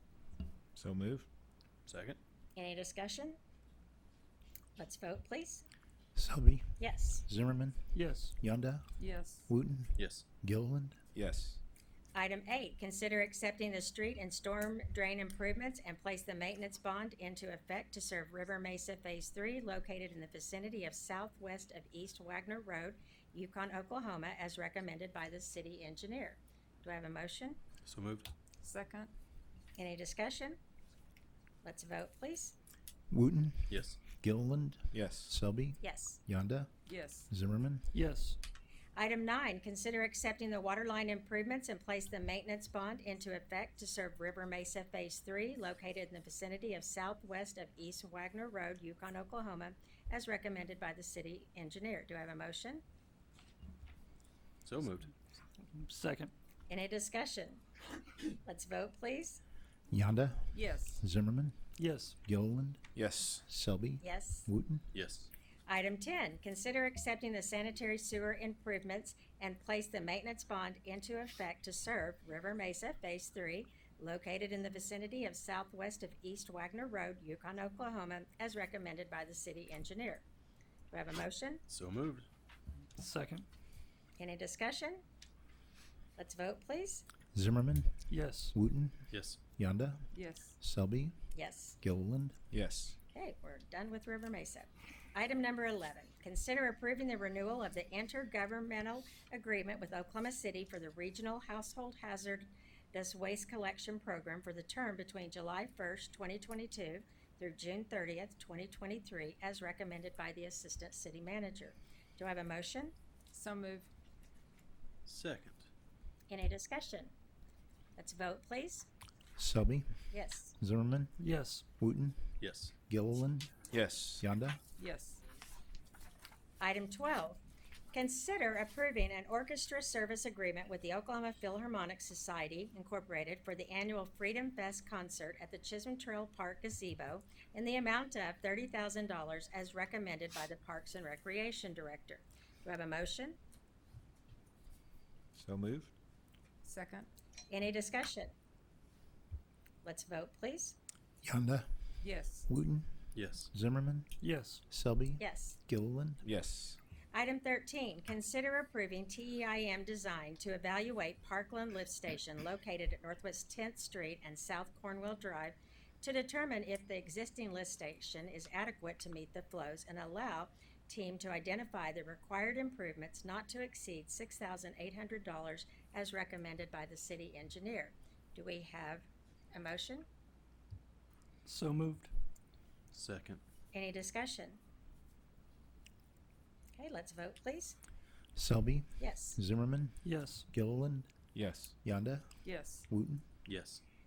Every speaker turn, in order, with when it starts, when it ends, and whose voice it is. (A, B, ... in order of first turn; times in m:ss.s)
0:00.8-0:01.3 A
0:01.9-0:02.2 B
0:02.6-0:03.4 C
0:04.8-0:05.6 C
0:06.2-0:11.0 D
0:06.8-0:07.2 C
0:07.9-0:08.4 E
0:09.0-0:09.5 F
0:10.0-0:10.2 B
0:11.2-0:11.6 A
0:12.1-0:27.6 C
0:27.9-0:28.3 B
0:28.6-0:29.1 F
0:29.8-0:30.6 C
0:31.6-0:32.6 C
0:33.1-0:36.7 D
0:33.7-0:34.0 B
0:34.9-0:35.3 A
0:35.8-0:36.2 C
0:36.9-0:37.3 F
0:37.3-0:37.9 D
0:37.9-0:38.4 E
0:39.0-0:52.8 C
0:54.6-0:55.1 B
0:55.7-0:56.3 E
0:56.7-0:57.6 C
0:58.4-0:59.4 C
0:59.9-1:01.6 D
1:00.5-1:01.0 F
1:01.8-1:02.2 E
1:02.2-1:04.9 D
1:03.0-1:03.4 A
1:04.0-1:04.5 C
1:04.9-1:05.3 B
1:05.7-1:20.2 C
1:20.9-1:21.6 C
1:21.7-1:22.3 B
1:23.0-1:23.5 E
1:24.2-1:25.0 C
1:26.2-1:27.0 C
1:27.3-1:31.2 D
1:28.1-1:28.5 E
1:29.1-1:29.4 B
1:30.1-1:30.5 F
1:31.3-1:31.8 C
1:31.8-1:32.4 D
1:32.5-1:33.0 A
1:33.1-1:52.9 C
1:53.3-1:53.9 F
1:55.1-1:55.6 B
1:56.3-1:57.1 C
1:58.0-1:58.9 C
1:59.4-2:00.0 D
2:00.1-2:00.5 C
2:00.6-2:01.1 D
2:01.2-2:01.6 E
2:01.8-2:04.6 D
2:02.4-2:02.7 B
2:03.7-2:04.2 A
2:04.8-2:05.2 F
2:06.6-2:07.4 C
2:07.9-2:23.4 C
2:25.4-2:25.9 A
2:26.6-2:27.1 F
2:27.5-2:28.3 C
2:29.8-2:30.8 C
2:31.2-2:31.7 D
2:32.0-2:32.5 F
2:32.5-2:34.2 D
2:33.2-2:33.5 B
2:34.2-2:34.6 E
2:34.7-2:36.2 D
2:35.2-2:35.6 C
2:36.2-2:36.8 A
2:37.1-3:00.1 C
3:01.5-3:02.1 E
3:02.9-3:03.4 B
3:03.7-3:04.6 C
3:06.7-3:07.8 C
3:08.4-3:11.1 D
3:09.0-3:09.4 C
3:10.0-3:10.4 E
3:11.3-3:11.7 A
3:11.8-3:13.2 D
3:12.4-3:12.9 F
3:13.4-3:13.8 B